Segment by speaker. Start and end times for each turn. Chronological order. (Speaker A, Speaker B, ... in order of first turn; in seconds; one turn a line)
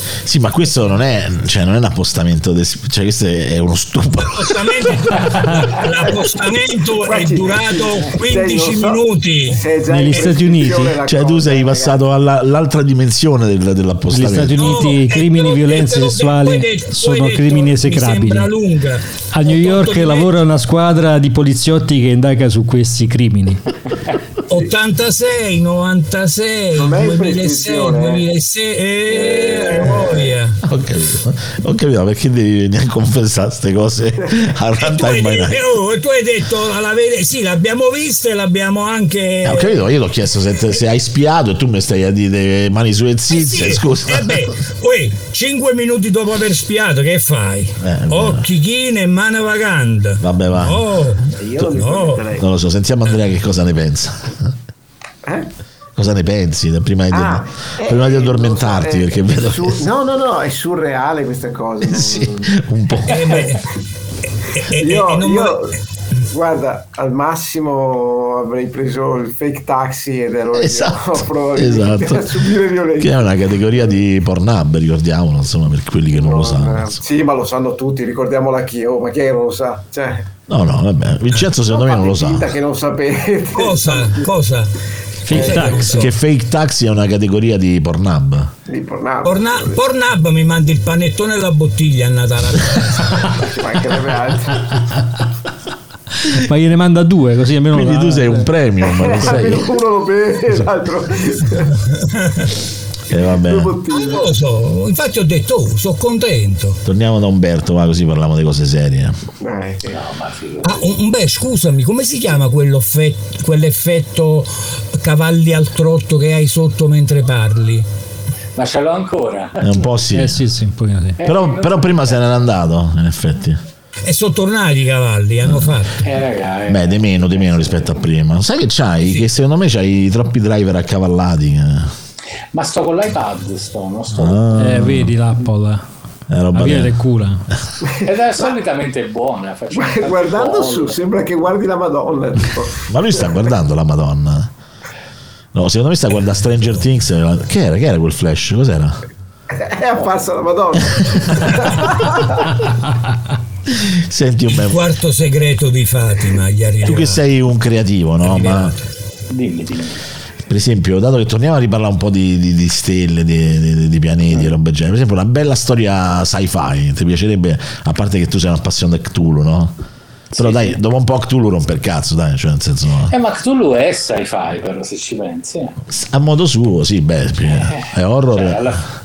Speaker A: 0.2-4.9
Speaker B: 4.2-9.6
Speaker C: 7.0-12.0
Speaker D: 9.9-10.9
Speaker A: 11.0-14.9
Speaker D: 14.1-18.5
Speaker B: 14.6-20.3
Speaker D: 19.3-23.6
Speaker B: 24.5-30.6
Speaker C: 26.7-28.2
Speaker C: 29.1-30.3
Speaker A: 30.6-35.6
Speaker B: 34.8-39.8
Speaker A: 39.4-44.5
Speaker B: 43.3-52.2
Speaker A: 47.8-48.5
Speaker A: 50.2-50.8
Speaker C: 51.4-52.5
Speaker A: 52.4-54.5
Speaker C: 55.2-55.5
Speaker A: 56.0-59.8
Speaker C: 57.1-62.5
Speaker A: 61.8-63.4
Speaker B: 63.1-63.7
Speaker B: 64.5-65.7
Speaker C: 64.7-73.3
Speaker A: 70.5-77.0
Speaker C: 76.1-80.3
Speaker A: 80.5-82.5
Speaker C: 81.6-84.3
Speaker B: 83.5-84.7
Speaker D: 85.2-86.0
Speaker B: 85.3-86.1
Speaker C: 85.3-85.7
Speaker A: 85.4-88.5
Speaker C: 88.7-89.8
Speaker B: 89.2-93.5
Speaker C: 93.4-94.8
Speaker D: 96.3-98.5
Speaker A: 97.7-99.8
Speaker C: 98.8-101.8
Speaker B: 101.9-102.5
Speaker A: 103.1-103.8
Speaker C: 103.4-104.3
Speaker B: 103.9-106.8
Speaker A: 106.8-109.1
Speaker C: 109.4-109.9
Speaker E: 109.8-110.8
Speaker B: 110.6-117.9
Speaker E: 118.5-119.9
Speaker A: 119.6-120.4
Speaker D: 120.1-121.2
Speaker E: 121.2-122.2
Speaker A: 121.2-123.6
Speaker B: 124.0-126.1
Speaker A: 125.4-125.7
Speaker E: 126.0-127.9
Speaker A: 126.7-131.9
Speaker E: 132.5-134.4
Speaker A: 134.1-135.1
Speaker D: 134.6-135.8
Speaker A: 136.3-136.9
Speaker D: 136.5-137.4
Speaker E: 138.0-141.0
Speaker C: 139.7-142.9
Speaker A: 142.9-144.5
Speaker A: 145.5-149.0
Speaker C: 149.5-152.4
Speaker A: 153.7-154.8
Speaker B: 154.5-157.2
Speaker A: 156.8-158.8
Speaker B: 158.3-158.7
Speaker E: 159.3-160.0
Speaker A: 160.5-169.7
Speaker E: 170.3-170.8
Speaker A: 170.3-173.1
Speaker E: 173.1-175.8
Speaker A: 175.9-178.7
Speaker E: 177.5-178.8